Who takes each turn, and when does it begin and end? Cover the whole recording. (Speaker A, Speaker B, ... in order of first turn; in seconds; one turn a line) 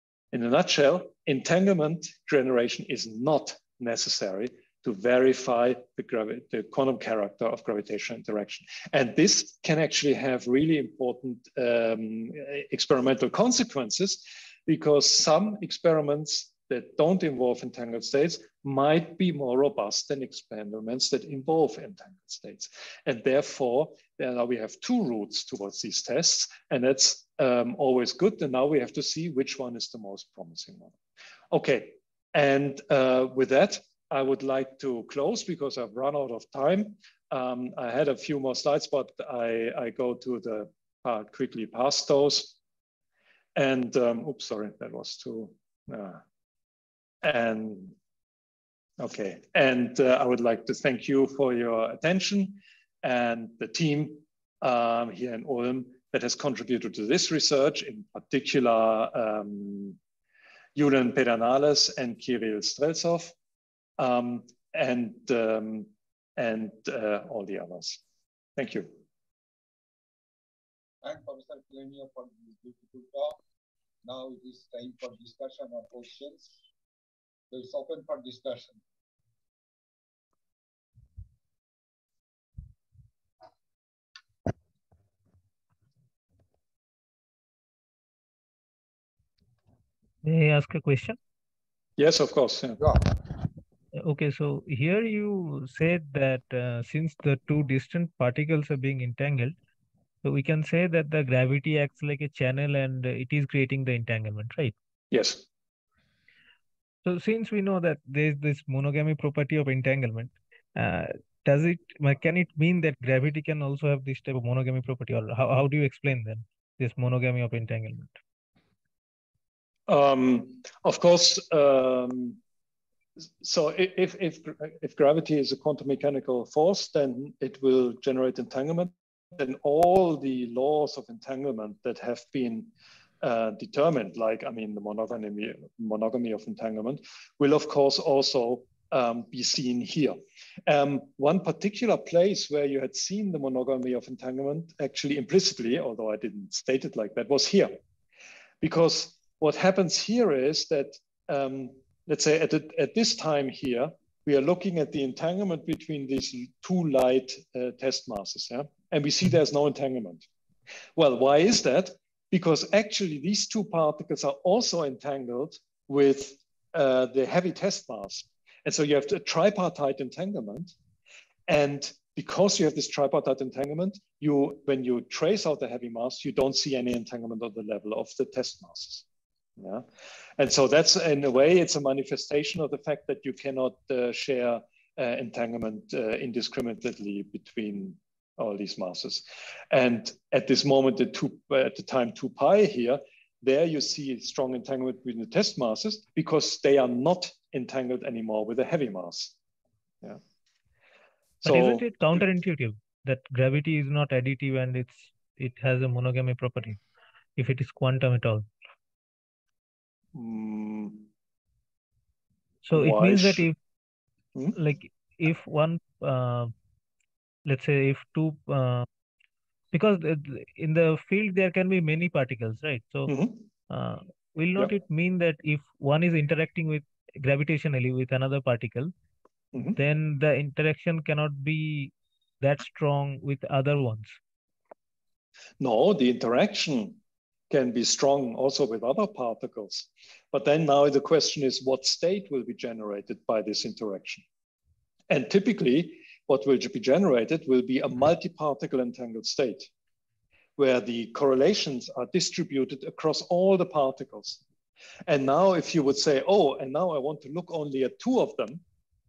Speaker A: 0.3-30.9
Speaker A: 31.5-42.6
Speaker A: 43.5-46.2
Speaker A: 47.2-48.0
Speaker A: 49.0-60.0
Speaker A: 60.7-63.3
Speaker A: 64.0-68.0
Speaker A: 68.6-69.0
Speaker B: 71.0-73.4
Speaker B: 74.0-76.5
Speaker B: 77.5-78.8
Speaker C: 90.2-91.2
Speaker A: 92.0-92.8
Speaker C: 93.9-99.5
Speaker C: 100.2-104.7
Speaker A: 105.1-105.5
Speaker C: 107.0-118.1
Speaker A: 119.9-122.4
Speaker A: 123.4-132.7
Speaker A: 133.2-147.8
Speaker A: 148.6-160.3
Speaker A: 160.9-170.7
Speaker A: 171.5-179.1
Speaker A: 179.6-179.8
Speaker A: 180.4-199.3
Speaker A: 201.4-202.2
Speaker C: 201.4-206.8
Speaker C: 207.4-208.5
Speaker A: 210.1-211.1
Speaker C: 212.6-213.6
Speaker A: 212.7-213.5
Speaker C: 214.5-216.5
Speaker C: 217.4-218.9
Speaker C: 219.7-223.1
Speaker A: 223.1-223.4
Speaker C: 223.7-228.9
Speaker C: 229.7-234.2
Speaker A: 235.6-237.0
Speaker A: 237.5-244.2
Speaker A: 245.1-249.7
Speaker A: 250.6-254.4
Speaker A: 255.1-258.6